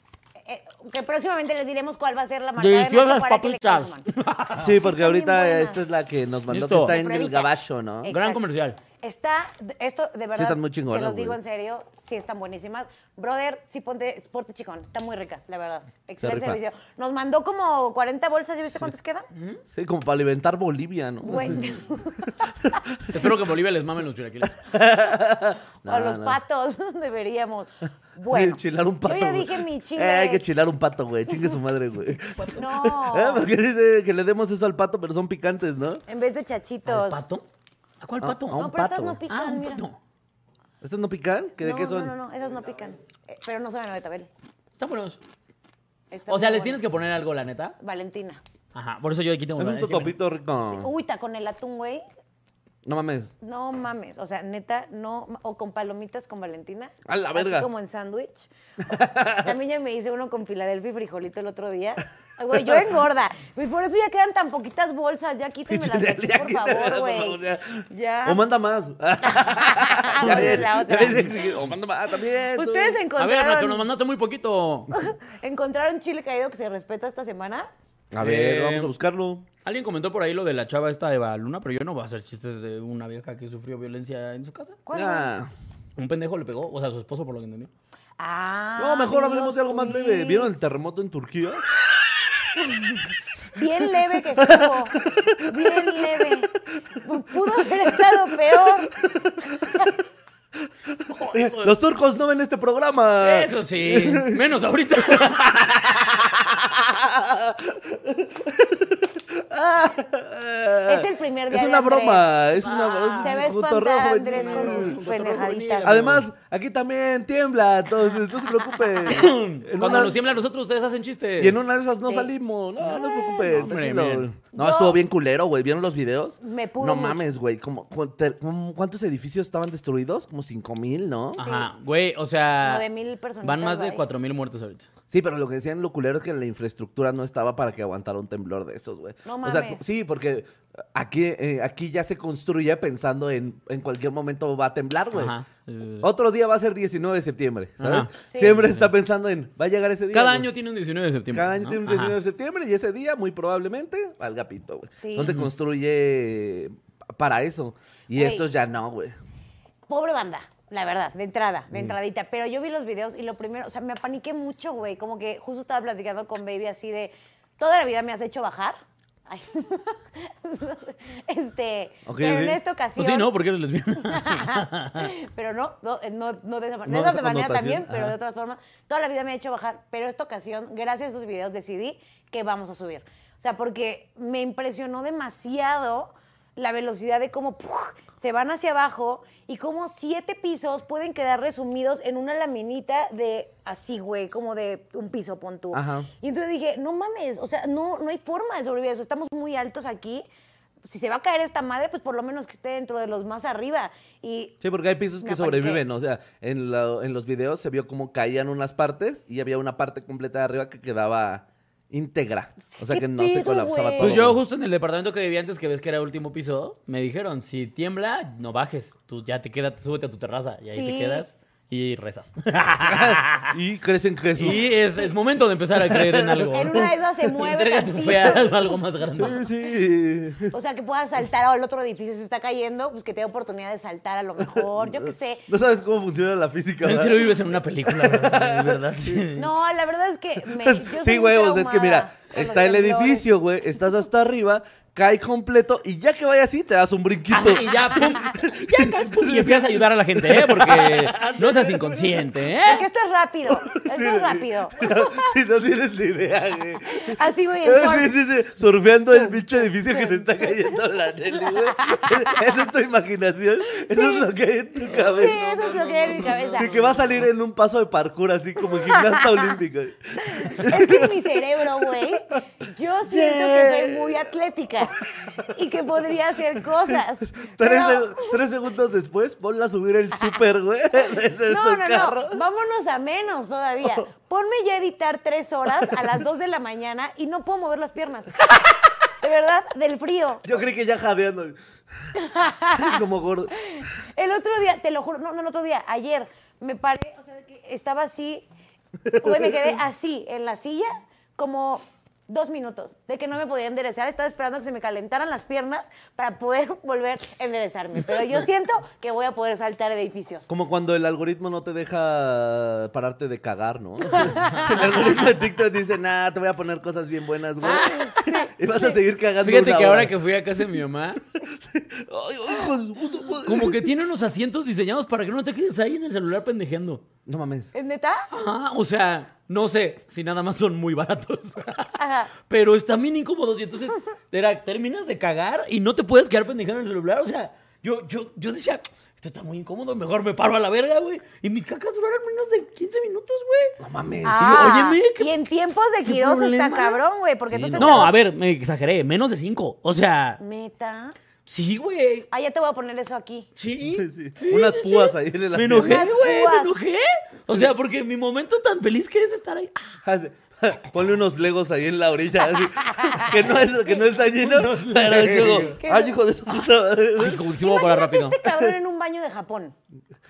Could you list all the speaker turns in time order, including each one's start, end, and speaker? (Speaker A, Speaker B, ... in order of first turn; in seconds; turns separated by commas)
Speaker A: 0.4-4.0, Speaker B: 2.6-4.8, Speaker C: 4.6-8.1, Speaker A: 4.8-5.8, Speaker B: 6.5-7.0, Speaker A: 6.8-7.5, Speaker A: 8.0-8.4, Speaker B: 8.1-8.8, Speaker A: 9.0-19.3, Speaker C: 10.3-11.4, Speaker C: 16.2-16.6, Speaker B: 19.3-19.6, Speaker C: 19.7-21.6, Speaker A: 21.2-22.8, Speaker C: 22.3-23.3, Speaker B: 23.1-24.6, Speaker C: 24.6-26.4, Speaker A: 25.9-30.4, Speaker C: 28.3-36.0, Speaker A: 32.5-33.5, Speaker A: 36.1-37.2, Speaker B: 36.9-37.4, Speaker B: 38.0-38.7, Speaker C: 38.2-39.2, Speaker A: 38.5-39.9, Speaker B: 39.3-40.0, Speaker C: 40.8-42.1, Speaker A: 41.6-44.3, Speaker B: 44.8-45.2, Speaker A: 46.1-46.9, Speaker B: 46.3-47.8, Speaker A: 47.8-48.4, Speaker B: 48.7-50.1, Speaker C: 49.6-50.9, Speaker A: 50.7-52.0, Speaker C: 52.8-53.3, Speaker A: 53.4-58.5, Speaker C: 57.0-57.7, Speaker C: 58.8-59.5, Speaker A: 59.4-68.4, Speaker C: 62.5-62.8, Speaker C: 65.7-73.0, Speaker A: 69.2-71.5, Speaker B: 70.2-71.1, Speaker A: 72.5-73.8, Speaker B: 73.2-74.9, Speaker A: 74.9-77.7, Speaker C: 78.1-79.5, Speaker B: 78.2-78.9, Speaker B: 79.6-84.8, Speaker A: 84.8-85.3, Speaker C: 84.9-85.5, Speaker B: 86.0-87.7, Speaker A: 88.2-90.5, Speaker C: 88.8-91.6, Speaker A: 92.6-99.9, Speaker C: 94.4-96.4, Speaker C: 97.8-99.8, Speaker C: 100.9-104.4, Speaker B: 101.0-101.7, Speaker B: 103.2-105.5, Speaker C: 105.0-115.0, Speaker A: 110.8-112.3, Speaker B: 112.6-113.4, Speaker A: 113.2-115.9, Speaker B: 114.2-116.3, Speaker C: 115.8-120.2, Speaker B: 119.0-121.6, Speaker C: 121.4-131.4, Speaker A: 122.0-122.3, Speaker A: 122.9-123.6, Speaker B: 123.2-124.3, Speaker A: 124.5-125.0, Speaker A: 126.4-127.2, Speaker B: 131.4-132.8, Speaker A: 131.4-131.7, Speaker A: 132.6-134.0, Speaker B: 133.4-134.9, Speaker C: 135.1-145.3, Speaker A: 139.2-139.8, Speaker B: 145.1-146.1, Speaker C: 146.0-150.5, Speaker B: 147.8-148.9, Speaker A: 148.3-148.6, Speaker B: 150.1-152.2, Speaker C: 151.3-159.1, Speaker A: 155.0-155.3, Speaker A: 158.1-158.4, Speaker A: 159.9-173.3, Speaker C: 172.1-172.6, Speaker B: 173.0-175.1, Speaker A: 174.0-200.2, Speaker C: 176.8-178.1, Speaker C: 195.7-196.1, Speaker A: 200.8-204.6, Speaker C: 204.6-214.4, Speaker A: 205.2-205.8, Speaker A: 212.7-214.2, Speaker B: 214.0-223.6, Speaker A: 220.7-221.2, Speaker C: 222.8-224.7, Speaker B: 224.3-229.4, Speaker C: 225.7-226.8, Speaker A: 226.5-228.6, Speaker C: 229.2-230.5, Speaker A: 230.5-235.4, Speaker C: 234.4-239.3, Speaker B: 236.8-239.5, Speaker A: 239.3-243.2, Speaker C: 240.4-252.3, Speaker B: 247.3-252.8, Speaker A: 252.6-255.3, Speaker C: 253.5-265.4, Speaker A: 256.9-258.1, Speaker A: 259.1-260.8, Speaker A: 261.3-262.4, Speaker A: 263.7-264.3, Speaker B: 264.8-267.3, Speaker A: 264.9-266.9, Speaker C: 266.1-272.4, Speaker A: 268.6-269.6, Speaker A: 270.2-278.4, Speaker C: 273.0-274.3, Speaker C: 275.2-275.5, Speaker C: 276.6-282.4, Speaker A: 281.4-290.5, Speaker C: 285.8-286.1, Speaker C: 290.4-292.1, Speaker A: 292.1-293.0, Speaker C: 292.7-293.5, Speaker A: 293.5-298.4, Speaker C: 299.1-299.8, Speaker A: 299.2-310.5, Speaker C: 310.5-320.1, Speaker A: 314.1-315.0, Speaker B: 314.3-314.8, Speaker A: 317.6-319.0, Speaker B: 317.6-318.3, Speaker B: 319.4-321.2, Speaker C: 321.5-323.9, Speaker B: 323.4-327.0, Speaker C: 327.2-327.7, Speaker A: 327.7-328.3, Speaker B: 328.3-343.8, Speaker A: 332.0-332.3, Speaker C: 343.8-344.7, Speaker A: 344.2-348.1, Speaker B: 344.4-345.3, Speaker B: 346.0-347.0, Speaker C: 347.5-348.1, Speaker B: 347.7-350.4, Speaker A: 350.4-351.1, Speaker B: 351.4-352.3, Speaker A: 352.3-353.5, Speaker B: 353.6-359.9, Speaker C: 353.8-356.1, Speaker A: 355.7-356.7, Speaker C: 360.0-367.5, Speaker A: 362.8-363.7, Speaker B: 364.1-365.8, Speaker A: 365.8-366.2, Speaker B: 367.2-368.4, Speaker A: 367.6-369.7, Speaker C: 368.4-368.7